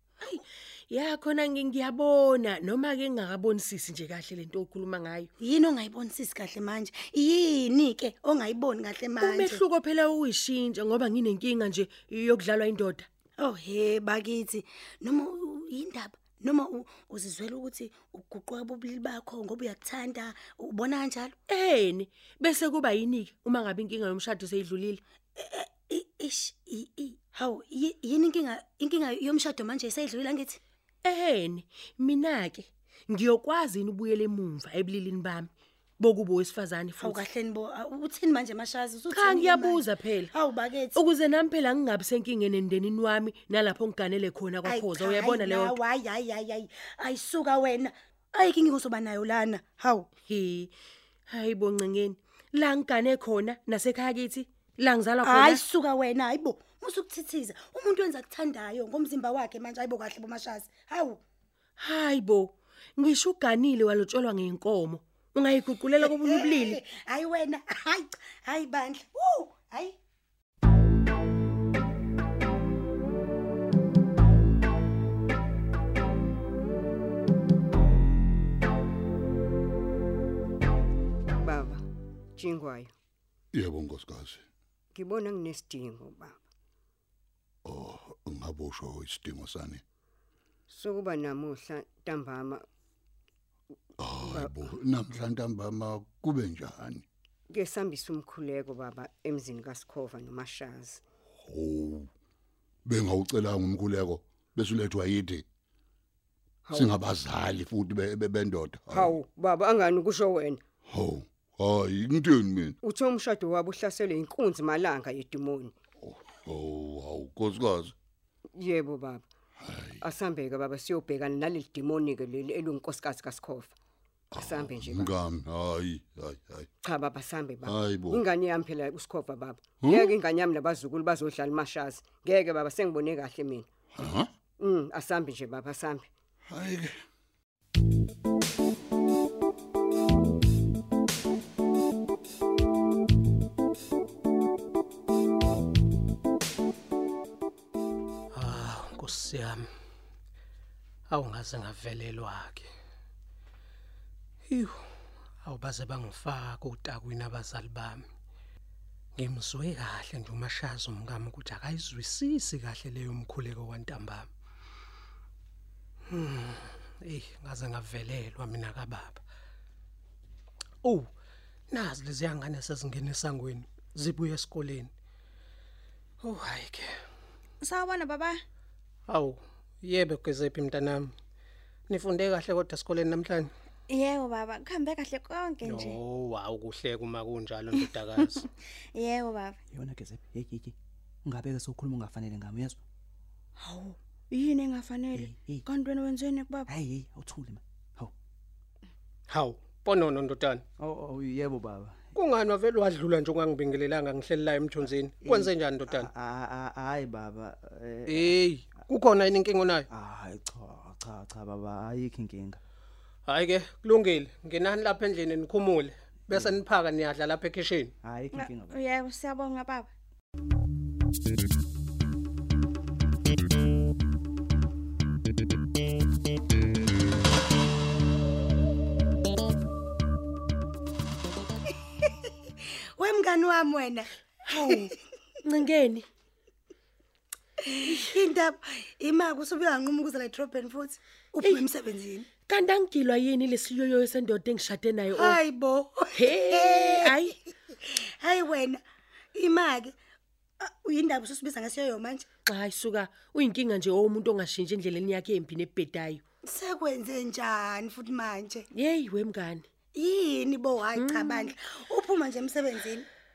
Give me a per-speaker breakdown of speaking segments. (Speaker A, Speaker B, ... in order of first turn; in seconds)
Speaker A: 0.2-5.3, 9.2-13.1, 21.5-25.0, 31.0-37.2, 39.1-40.3, 40.9-45.8, 50.3-50.7, 51.3-55.6, 61.8-66.8, 234.4-234.9, 235.4-236.0, 242.5-245.4, 246.1-247.3, 252.5-256.2, 258.7-259.6, 260.9-261.5
Speaker B: 5.4-9.6, 13.4-21.3, 25.4-30.6, 37.0-41.0, 44.6-50.1, 55.2-61.2, 66.0-70.0, 233.0-234.9, 237.7-242.3, 245.1-247.1, 247.7-248.8, 249.3-249.9, 250.6-252.3, 256.5-258.7, 259.9-263.1
Speaker C: 81.4-81.8, 82.4-82.9, 84.9-86.4, 90.7-92.6, 94.2-94.5, 97.5-101.0, 108.9-110.6, 112.8-115.7, 118.6-119.2, 120.0-123.7, 124.3-125.1, 126.8-133.7, 134.6-136.1
Speaker D: 83.5-84.4, 87.6-89.8, 94.0-97.0, 101.4-102.1, 102.8-105.4, 106.7-109.2, 110.9-112.8, 116.0-117.9, 119.6-120.0, 124.3-126.7, 127.6-128.2, 129.8-130.1, 133.9-134.3, 136.5-136.9
Speaker E: 148.3-149.6, 151.1-152.7, 154.5-154.7, 155.4-158.0, 159.2-164.2, 166.1-169.2, 171.7-174.9, 176.2-176.9, 179.1-181.1, 181.9-183.5, 185.6-188.4, 199.3-200.6, 202.1-206.1, 208.1-209.8, 213.3-217.9
Speaker F: 177.6-178.4, 183.9-186.0, 187.7-189.6, 193.6-196.7, 218.3-219.9
Speaker G: 189.7-190.7, 191.2-192.8, 195.2-195.6, 196.7-198.1, 200.8-202.0, 204.8-208.4, 209.9-212.6, 216.3-216.6, 218.0-218.7